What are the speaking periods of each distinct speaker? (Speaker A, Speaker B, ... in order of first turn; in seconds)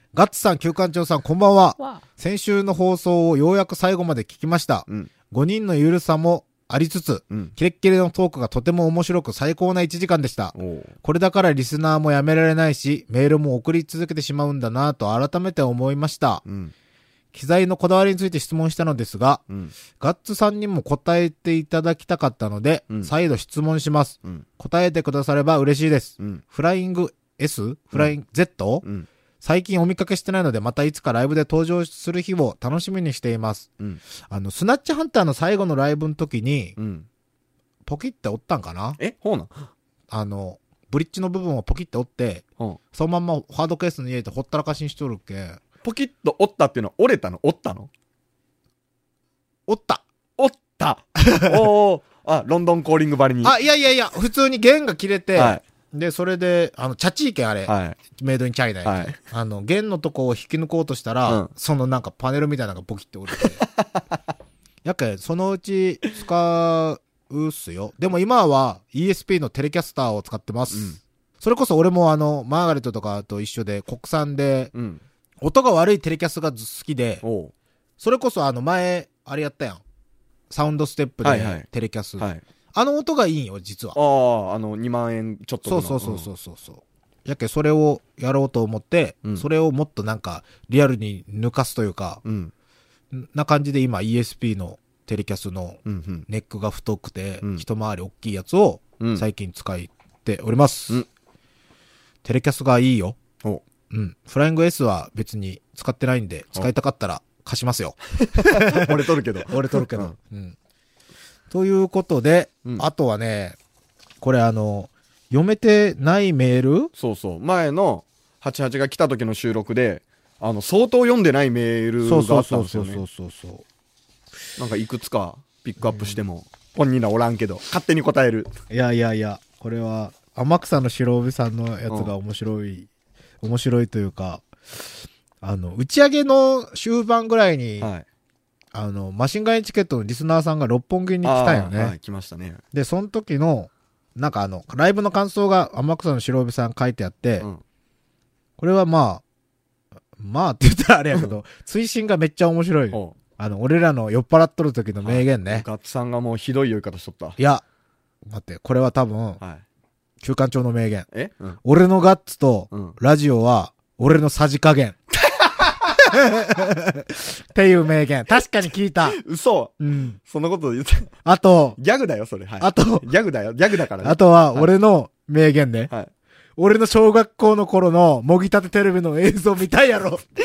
Speaker A: 0.1-16.4, 17.3-19.4, 20.0-28.9, 29.4-33.7, 34.3-36.8, 37.9-39.0, 40.1-45.6, 49.7-50.0, 51.2-51.6, 53.4-63.6, 64.8-74.7, 75.4-77.2, 78.0-79.8, 80.5-84.0, 85.7-92.2, 93.1-101.0, 102.2-103.2, 103.9-110.6, 111.5-113.6, 114.2-116.9, 122.0-123.7, 125.8-126.2, 128.7-132.9, 133.4-134.4, 135.4-137.9, 138.7-142.0, 142.7-147.5, 148.6-149.2, 150.2-155.7, 157.4-157.6, 158.3-159.4, 160.2-161.1, 161.6-165.0, 166.1-169.2, 169.8-170.2, 171.2-171.8, 172.6-173.1, 174.0-175.9, 176.6-180.2
Speaker B: 10.6-10.9, 16.5-16.7, 36.8-37.1, 39.0-39.7, 45.8-47.9, 50.4-53.5, 55.4-55.6, 57.7-58.0, 58.8-59.2, 70.7-71.0, 74.7-75.0, 77.2-77.5, 81.2-81.7, 84.0-86.3, 92.2-92.5, 95.9-96.2, 108.2-110.1, 117.0-123.0, 124.6-128.5, 131.9-132.1, 137.8-138.1, 141.2-142.6, 155.0-157.4, 161.1-161.6, 162.7-163.0, 165.2-165.9, 169.2-171.1, 171.8-174.7